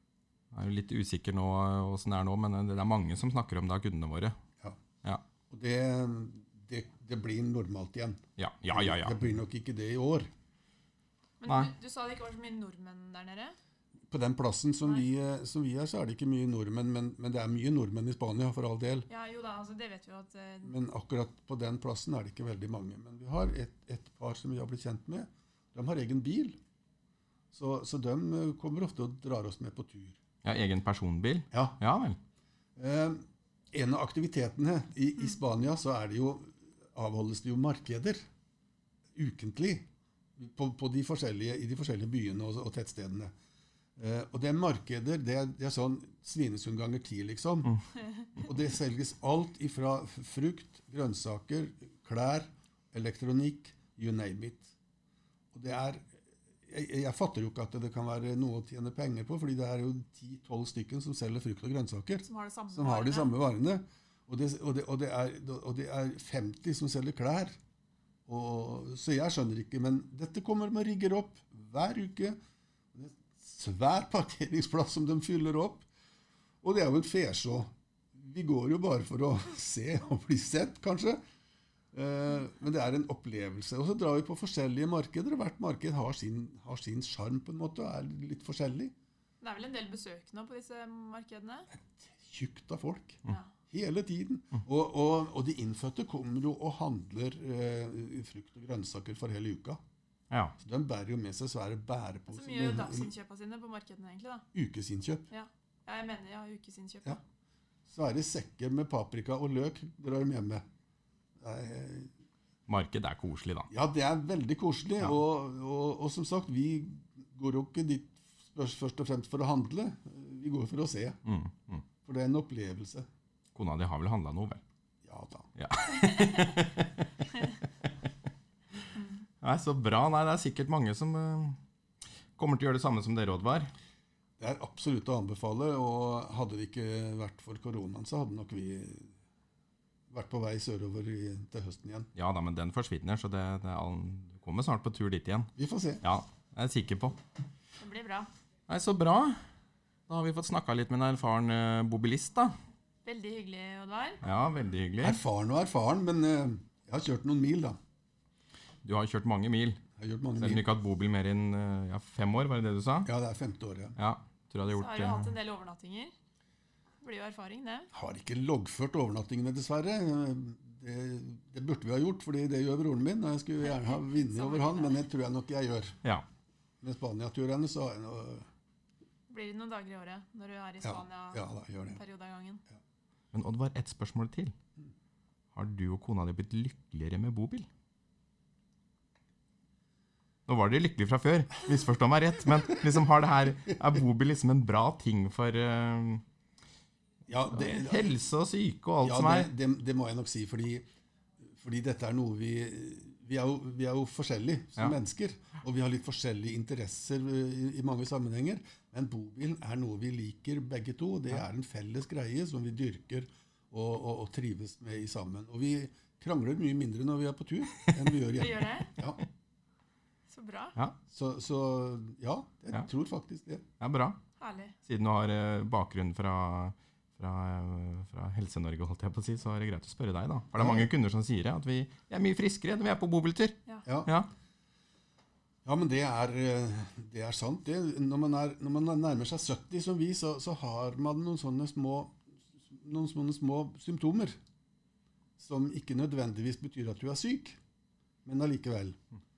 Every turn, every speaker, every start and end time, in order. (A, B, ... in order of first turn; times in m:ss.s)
0:00.5-0:04.4 A
0:05.5-0:10.3 B
0:08.4-0:09.2 A
0:11.4-0:13.6 C
0:11.4-0:11.7 A
0:14.1-0:19.1 B
0:19.1-0:20.7 C
0:20.6-0:26.6 B
0:27.5-0:30.2 B
0:30.4-0:32.2 A
0:31.5-0:31.8 B
0:32.8-0:38.2 B
0:39.1-0:43.3 B
0:44.0-0:47.8 B
0:48.4-0:54.7 B
0:55.5-1:07.6 B
1:02.2-1:03.3 C
1:08.3-1:12.4 B
1:12.9-1:15.8 B
1:16.6-1:21.2 B
1:21.9-1:28.9 B
1:29.4-1:31.7 C
1:31.7-1:39.8 B
1:40.6-1:43.1 B
1:42.3-1:44.4 C
1:44.5-1:45.3 B
1:45.3-1:47.2 C
1:47.9-1:50.6 B
1:51.4-1:52.1 B
1:52.7-1:53.7 A
1:53.7-2:01.2 B
2:01.2-2:01.8 A
2:02.0-2:03.0 B
2:03.5-2:04.6 A
2:05.0-2:05.5 B
2:05.6-2:06.9 A
2:06.1-2:06.6 C
2:09.4-2:11.6 A
2:12.4-2:13.7 A
2:14.4-2:19.1 B
2:20.1-2:22.1 B
2:22.2-2:25.5 A
2:25.6-2:26.0 B
2:26.0-2:27.2 A
2:27.8-2:28.3 C
2:28.7-2:29.4 A
2:30.1-2:32.5 A
2:33.0-2:34.2 C
2:34.2-2:35.2 A
2:35.0-2:37.8 B
2:38.8-2:39.8 A
2:40.0-2:40.6 B
2:40.4-2:43.1 A
2:43.0-2:44.0 B
2:44.0-2:45.3 A
2:44.7-2:46.1 C
2:47.0-2:47.9 C
2:47.9-2:56.0 B
2:53.6-2:55.0 C
2:56.8-2:58.5 B
2:59.3-3:02.6 C
3:00.8-3:02.0 B
3:03.3-3:04.5 A
3:05.5-3:07.7 A
3:10.5-3:16.2 A
3:17.3-3:18.2 B
3:17.5-3:19.5 A
3:19.0-3:20.8 B
3:21.4-3:39.2 B
3:38.3-3:38.9 C
3:40.3-3:40.8 C
3:41.1-3:43.6 B
3:43.8-3:44.2 A
3:44.4-3:44.8 C
3:44.8-3:54.3 A
3:50.5-3:50.9 B
3:55.6-4:04.4 B
4:05.4-4:07.6 B
4:08.2-4:09.0 B